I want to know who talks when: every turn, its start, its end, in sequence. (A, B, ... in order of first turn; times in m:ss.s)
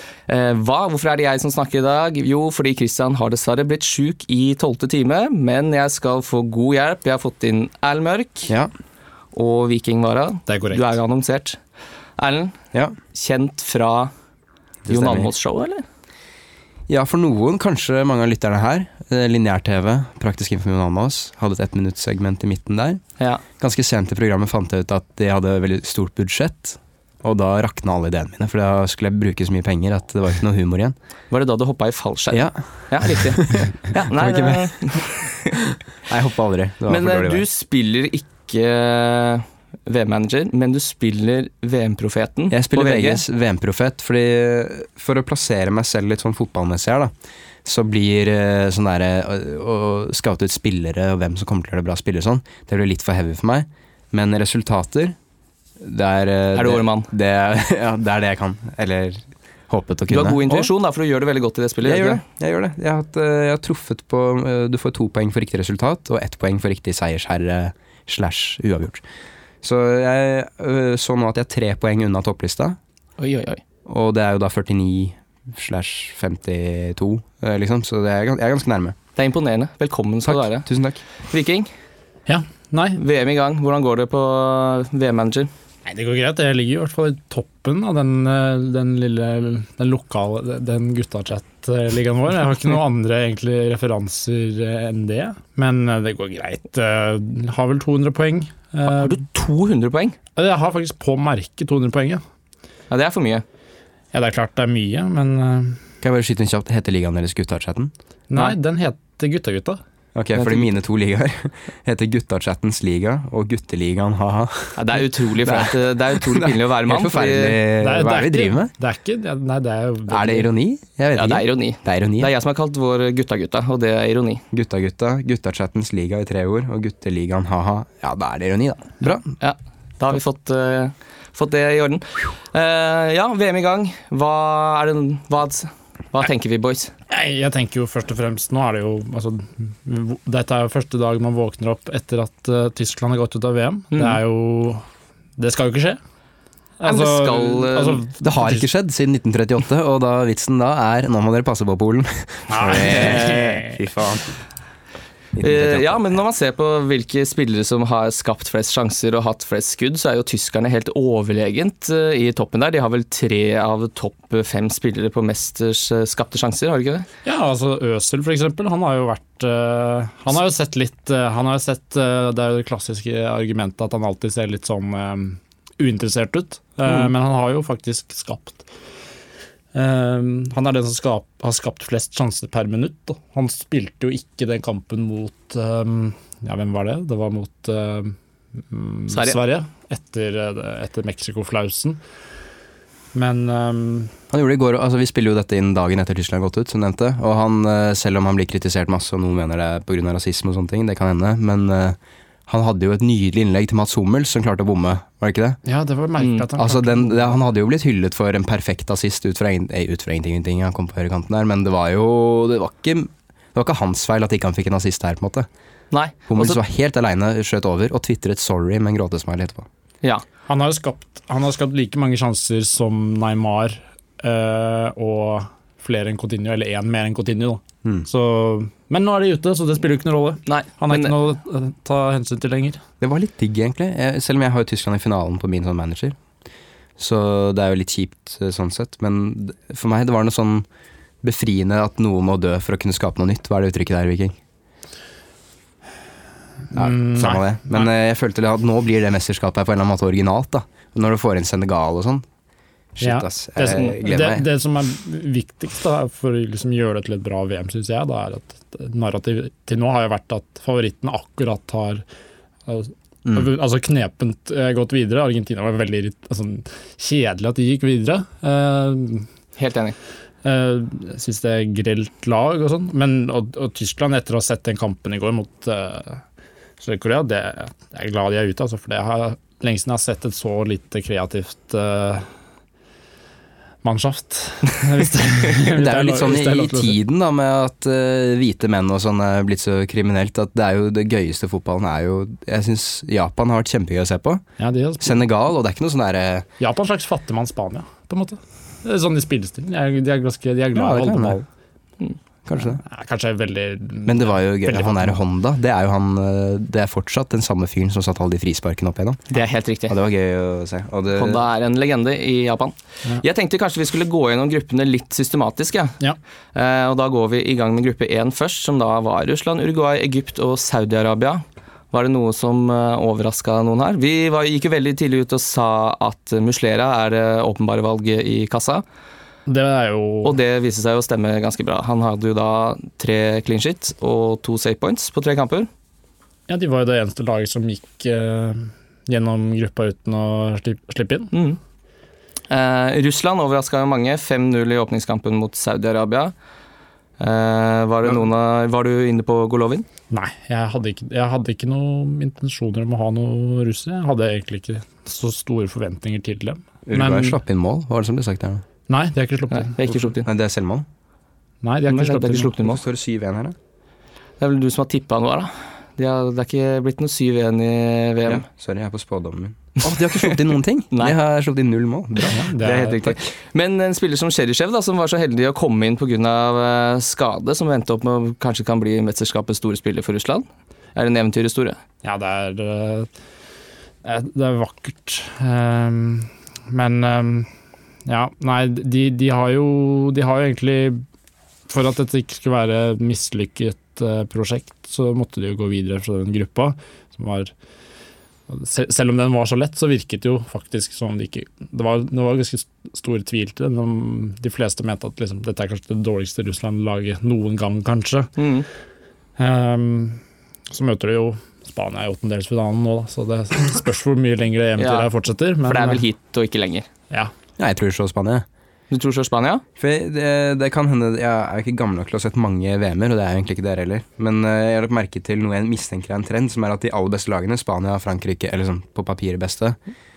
0:00.3-0:08.5 A
0:09.3-0:11.6 A
0:10.5-0:10.9 B
0:12.2-0:12.5 A
0:13.1-0:14.1 A
0:14.8-0:15.3 C
0:14.9-0:15.8 A
0:16.9-0:23.0 C
0:23.6-0:31.0 C
0:31.3-0:35.7 A
0:32.3-0:35.0 C
0:36.0-0:37.4 C
0:36.9-0:43.2 A
0:42.5-0:47.1 C
0:47.6-0:55.2 C
0:55.8-1:00.7 C
0:56.5-0:57.1 A
1:00.1-1:02.2 A
1:01.8-1:09.0 C
1:09.6-1:12.8 C
1:13.2-1:13.6 A
1:13.8-1:19.0 C
1:19.2-1:20.7 A
1:20.2-1:21.0 C
1:21.2-1:21.7 A
1:22.3-1:23.0 B
1:23.0-1:25.5 A
1:25.8-1:39.2 B
1:38.8-1:40.2 A
1:40.4-1:42.2 B
1:42.9-1:43.4 A
1:44.1-1:45.8 B
1:46.0-1:47.9 C
1:48.3-1:49.8 B
1:50.1-1:58.7 C
1:50.4-1:50.6 B
1:54.8-1:57.6 A
1:57.8-2:00.5 B
2:00.1-2:02.3 C
2:01.1-2:04.4 A
2:04.5-2:09.3 C
2:09.4-2:16.9 A
2:17.1-2:24.8 B
2:23.9-2:24.2 A
2:25.4-2:26.0 B
2:26.8-2:28.6 B
2:26.8-2:28.0 A
2:28.2-2:34.3 C
2:32.5-2:33.7 B
2:32.8-2:33.6 A
2:35.4-2:36.1 C
2:35.4-2:47.1 A
2:47.2-2:58.6 B
2:56.8-2:57.1 A
2:59.7-3:12.0 B
3:09.1-3:09.4 A
3:13.1-3:14.1 B
3:14.3-3:25.6 C
3:25.6-3:27.4 B
3:26.6-3:35.5 C
3:35.9-3:36.6 A
3:36.3-3:39.6 C
3:40.5-3:52.8 B
3:50.4-3:51.1 A
3:53.0-3:56.2 C
3:57.0-4:00.6 C
4:01.2-4:04.4 C
4:06.7-4:07.9 B
4:06.7-4:12.2 C
4:12.9-4:14.4 C
4:13.0-4:22.0 B
4:13.6-4:14.0 A
4:22.7-4:29.3 B
4:29.6-4:29.9 A
4:30.4-4:36.2 B
4:36.8-4:42.3 B
4:43.8-4:47.0 B
4:45.6-4:54.4 C
4:54.6-4:55.3 B
4:55.0-4:56.5 C
4:56.6-5:01.5 B
5:00.7-5:01.4 C
5:02.4-5:02.8 C
5:02.8-5:05.2 B
5:04.0-5:09.3 C
5:09.3-5:09.9 A
5:09.9-5:11.4 C
5:11.1-5:16.0 A
5:16.5-5:28.8 A
5:29.4-5:30.4 B
5:30.2-5:35.7 A
5:36.5-5:41.3 B
5:41.3-5:41.6 A
5:42.5-5:46.3 A
5:47.2-5:49.8 A
5:50.1-5:57.4 B
5:56.9-5:58.6 C
5:58.9-5:59.8 B
5:59.5-6:00.3 A
5:59.9-6:00.8 C
6:01.6-6:02.5 B
6:01.9-6:02.8 A
6:02.6-6:03.6 C
6:04.4-6:08.4 A
6:08.2-6:12.5 C
6:12.3-6:13.0 B
6:12.6-6:21.8 A
6:22.0-6:23.1 B
6:24.0-6:27.5 B
6:28.1-6:31.0 B
6:31.7-6:37.5 B
6:38.5-6:48.3 B
6:48.4-6:48.6 A
6:49.4-6:56.0 B
6:54.8-6:55.1 A
6:55.6-6:56.8 A
6:57.6-6:58.4 C
6:58.9-6:59.6 A
6:59.8-7:09.8 C